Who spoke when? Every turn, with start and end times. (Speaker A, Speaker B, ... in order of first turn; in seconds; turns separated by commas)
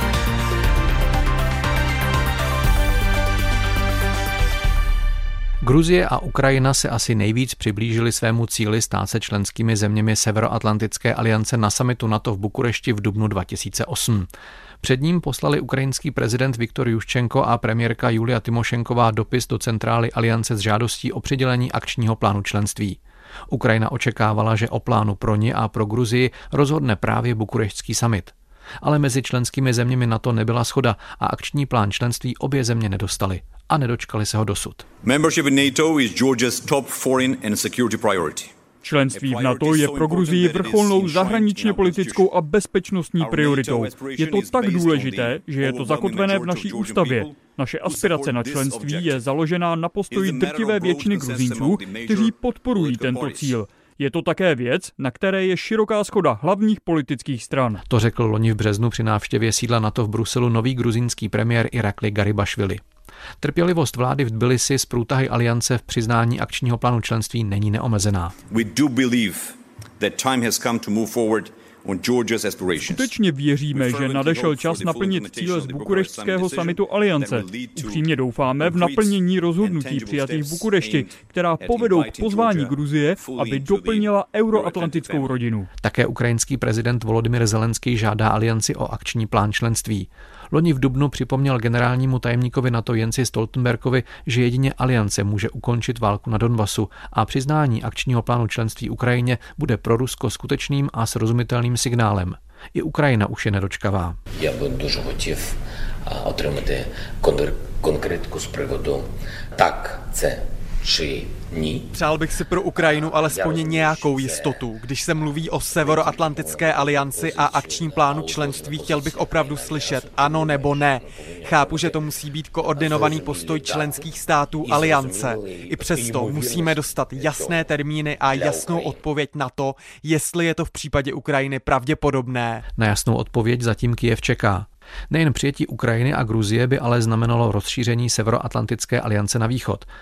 Speaker A: 5.6-14.3, Speaker A: 14.8-34.9, Speaker B: 35.0-38.5, Speaker C: 38.8-57.8, Speaker B: 39.1-42.3, Speaker B: 43.2-49.3, Speaker B: 50.1-53.6, Speaker A: 57.9-62.8, Speaker A: 63.4-68.4, Speaker B: 68.5-73.2, Speaker C: 72.8-85.7, Speaker B: 73.7-85.4, Speaker A: 85.8-104.2, Speaker D: 104.4-111.9, Speaker E: 111.9-132.7, Speaker D: 112.8-114.7, Speaker D: 115.6-122.1, Speaker D: 122.6-129.1, Speaker A: 132.8-139.9